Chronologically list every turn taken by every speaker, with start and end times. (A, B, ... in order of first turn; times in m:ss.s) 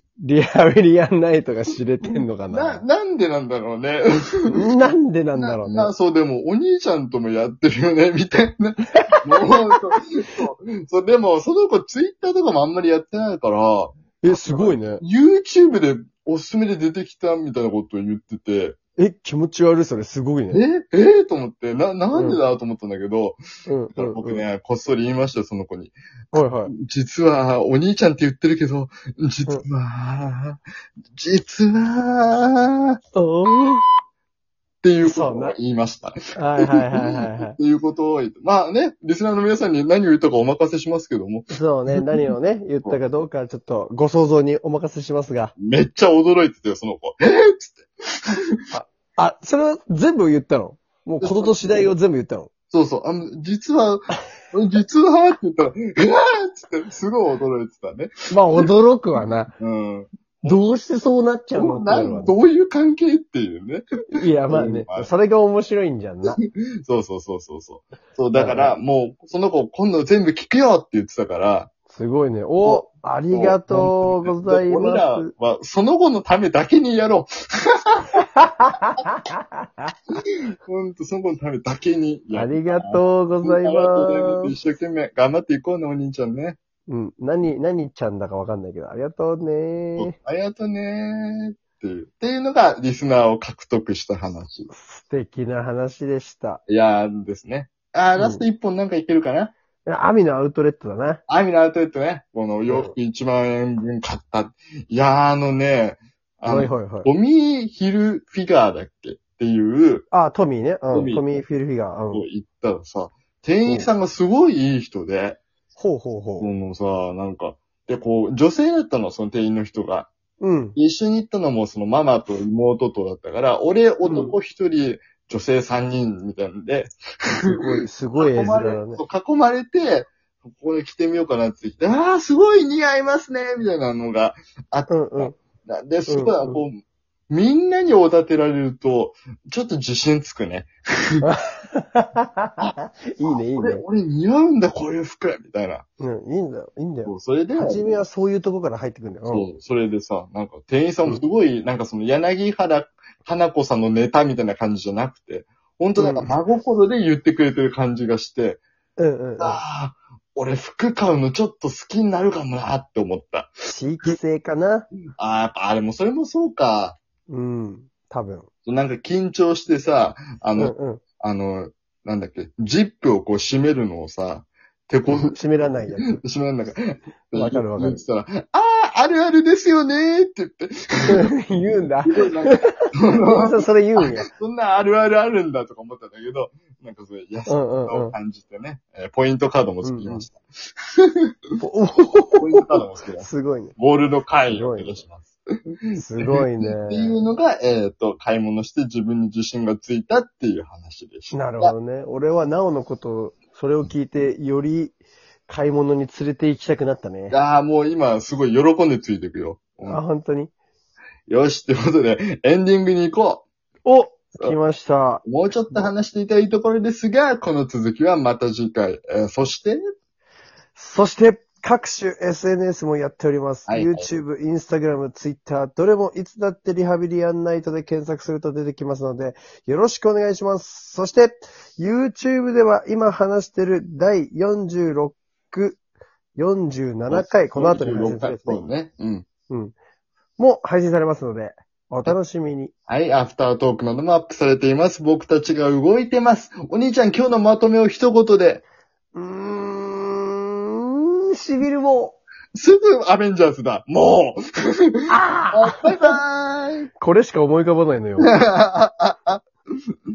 0:00.2-0:02.8 A
0:02.0-0:04.6 B
0:04.5-0:05.9 A
0:05.4-0:18.8 B
0:14.2-0:15.0 A
0:19.0-0:20.6 A
0:20.5-0:23.4 B
0:22.1-0:22.4 A
0:23.7-0:24.4 A
0:24.0-0:25.9 B
0:26.3-0:26.7 A
0:26.7-0:30.6 B
0:31.1-0:33.0 B
0:33.1-0:33.8 A
0:34.8-0:42.1 B
0:35.0-0:35.6 A
0:36.4-0:37.6 A
0:41.5-0:45.5 A
0:45.6-0:47.9 B
0:48.7-0:52.5 A
0:51.2-0:51.9 B
0:52.7-0:58.7 B
0:58.3-0:59.5 A
0:59.6-1:00.6 B
1:00.4-1:02.3 A
1:01.5-1:05.1 B
1:04.1-1:06.4 A
1:06.3-1:11.7 B
1:08.3-1:08.7 A
1:11.9-1:15.3 A
1:12.6-1:18.1 B
1:18.2-1:19.9 A
1:20.6-1:26.6 B
1:22.3-1:24.5 A
1:26.9-1:30.1 A
1:30.0-1:34.7 B
1:34.7-1:36.6 A
1:36.7-1:39.5 B
1:38.2-1:38.4 A
1:39.8-1:41.2 A
1:41.3-1:50.0 B
1:42.7-1:42.9 A
1:46.5-1:47.1 A
1:50.1-1:52.2 A
1:50.9-1:51.4 B
1:52.1-1:55.4 B
1:55.8-1:56.5 A
1:56.4-2:00.1 B
2:00.4-2:00.8 A
2:00.8-2:06.9 B
2:04.0-2:04.3 A
2:07.5-2:09.0 A
2:08.2-2:16.8 B
2:14.9-2:15.4 A
2:16.1-2:16.6 A
2:17.3-2:21.2 B
2:21.2-2:22.5 A
2:23.1-2:23.8 A
2:23.2-2:25.8 B
2:26.0-2:29.5 A
2:27.0-2:28.0 B
2:29.3-2:38.6 B
2:36.0-2:36.4 A
2:39.0-2:39.6 A
2:39.4-2:44.2 B
2:43.7-2:44.9 A
2:45.2-2:47.0 B
2:47.3-2:48.5 A
2:48.6-3:01.2 B
2:50.6-2:51.0 A
2:55.1-2:56.2 A
2:57.3-2:58.0 A
3:01.1-3:04.3 A
3:02.1-3:10.4 B
3:07.5-3:08.1 A
3:09.8-3:10.2 A
3:11.0-3:11.2 B
3:11.6-3:12.6 A
3:12.4-3:15.4 B
3:13.2-3:13.7 A
3:14.5-3:14.9 A
3:15.9-3:21.7 B
3:16.0-3:17.2 A
3:21.3-3:27.3 A
3:27.3-3:30.0 B
3:29.8-3:30.5 A
3:31.3-3:33.4 B
3:33.8-3:35.9 A
3:35.2-3:39.8 B
3:40.7-3:55.8 A
3:43.7-3:44.1 B
3:56.4-3:58.6 A
3:57.1-3:59.2 B
4:00.4-4:02.7 A
4:02.9-4:08.6 B
4:09.1-4:12.2 A
4:12.5-4:16.9 B
4:15.1-4:16.2 A
4:17.0-4:18.3 A
4:18.2-4:19.4 B